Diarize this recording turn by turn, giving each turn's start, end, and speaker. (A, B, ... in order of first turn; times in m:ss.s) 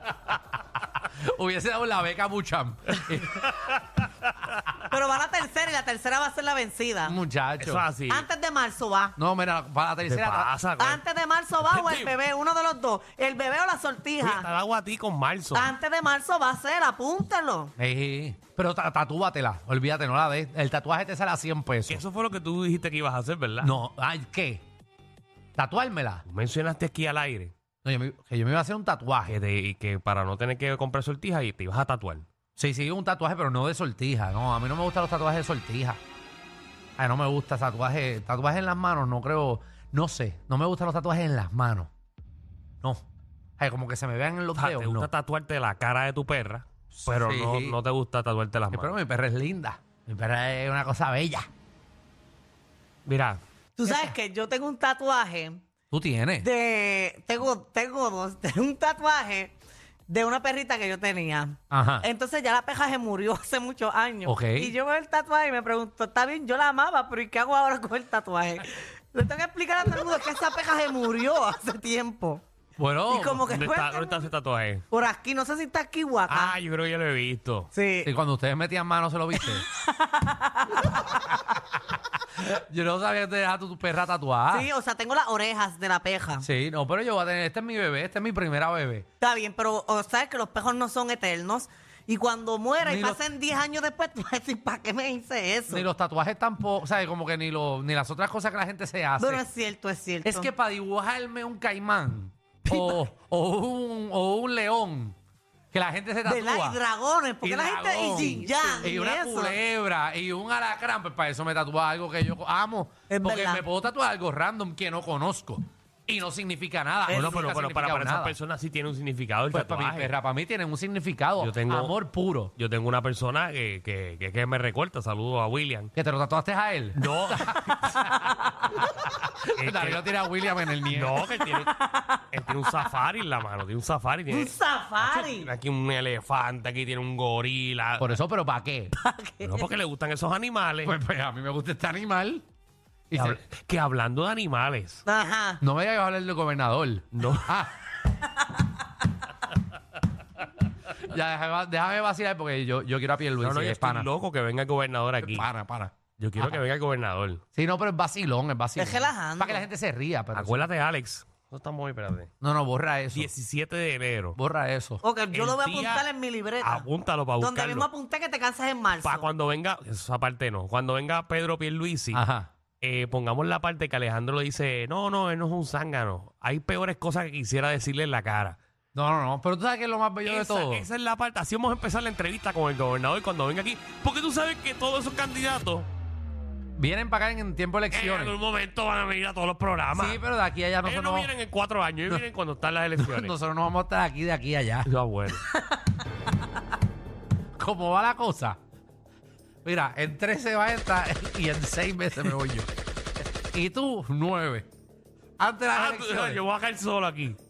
0:00.9-0:03.6 A
0:03.0-0:04.6 B
0:04.9-0:07.2 C
0:07.1-0:07.8 A
0:07.6-0:08.3 B
0:08.1-0:09.1 C
0:09.2-0:10.5 A
0:10.0-0:11.0 B
0:10.8-0:14.5 C
0:11.6-0:12.2 B
0:14.2-0:15.7 B
0:15.5-0:17.7 C
0:17.8-0:22.0 A
0:21.9-0:23.8 B
0:23.6-0:24.6 A
0:25.6-0:26.2 A
0:26.2-0:27.5 B
0:27.8-0:29.4 A
0:29.2-0:32.2 B
0:32.6-0:36.0 A
0:37.0-0:41.9 A
0:43.6-0:45.1 A
0:44.6-0:48.9 B
0:46.9-0:47.8 A
0:48.7-0:51.5 A
0:53.1-0:53.4 B
0:53.8-0:55.6 C
0:53.8-0:54.1 A
0:55.9-0:56.5 A
0:56.4-0:59.6 C
1:00.1-1:12.4 C
1:01.7-1:02.1 A
1:04.2-1:04.8 A
1:12.8-1:13.7 A
1:13.1-1:14.3 C
1:13.4-1:14.8 B
1:14.9-1:16.6 C
1:16.3-1:17.7 B
1:17.7-1:18.1 C
1:18.0-1:19.7 A
1:19.4-1:21.1 C
1:22.3-1:24.7 A
1:24.5-1:26.4 C
1:26.4-1:29.1 A
1:29.2-1:35.9 C
1:32.8-1:33.2 A
1:35.7-1:39.4 A
1:39.2-1:40.5 C
1:40.2-1:45.2 A
1:42.7-1:43.0 C
1:45.7-1:46.8 A
1:46.2-1:49.6 C
1:47.4-1:58.4 A
1:53.1-1:53.6 C
1:57.1-2:00.1 B
1:59.5-2:02.5 A
2:01.4-2:02.0 B
2:02.6-2:05.9 B
2:05.9-2:11.3 A
2:06.9-2:08.1 B
2:09.6-2:10.0 B
2:10.9-2:11.8 B
2:11.5-2:12.2 C
2:12.3-2:18.2 B
2:14.3-2:15.5 C
2:18.0-2:18.9 A
2:19.0-2:19.7 C
2:19.4-2:21.0 B
2:20.8-2:22.4 A
2:23.1-2:23.4 A
2:23.1-2:25.0 B
2:25.1-2:25.6 C
2:25.6-2:27.8 A
2:27.1-2:27.6 B
2:31.0-2:34.1 A
2:33.4-2:35.5 B
2:35.2-2:36.6 A
2:36.2-2:37.4 B
2:37.6-2:40.7 A
2:38.8-2:39.7 C
2:40.3-2:42.3 B
2:42.4-2:43.3 A
2:43.1-2:44.4 B
2:44.4-2:45.0 A
2:45.0-2:46.9 C
2:45.3-2:46.1 B
2:46.6-2:47.9 B
2:47.4-2:49.3 C
2:49.0-2:52.2 B
2:52.1-2:52.5 A
2:52.8-2:58.6 B
2:58.9-3:00.9 A
3:00.2-3:05.9 B
3:06.8-3:08.4 A
3:07.9-3:10.2 B
3:09.9-3:11.3 A
3:10.8-3:13.4 B
3:13.0-3:14.9 A
3:14.9-3:15.4 B
3:17.6-3:18.6 A
3:19.6-3:22.7 A
3:23.4-3:24.7 A
3:25.4-3:26.4 A
3:25.7-3:27.4 B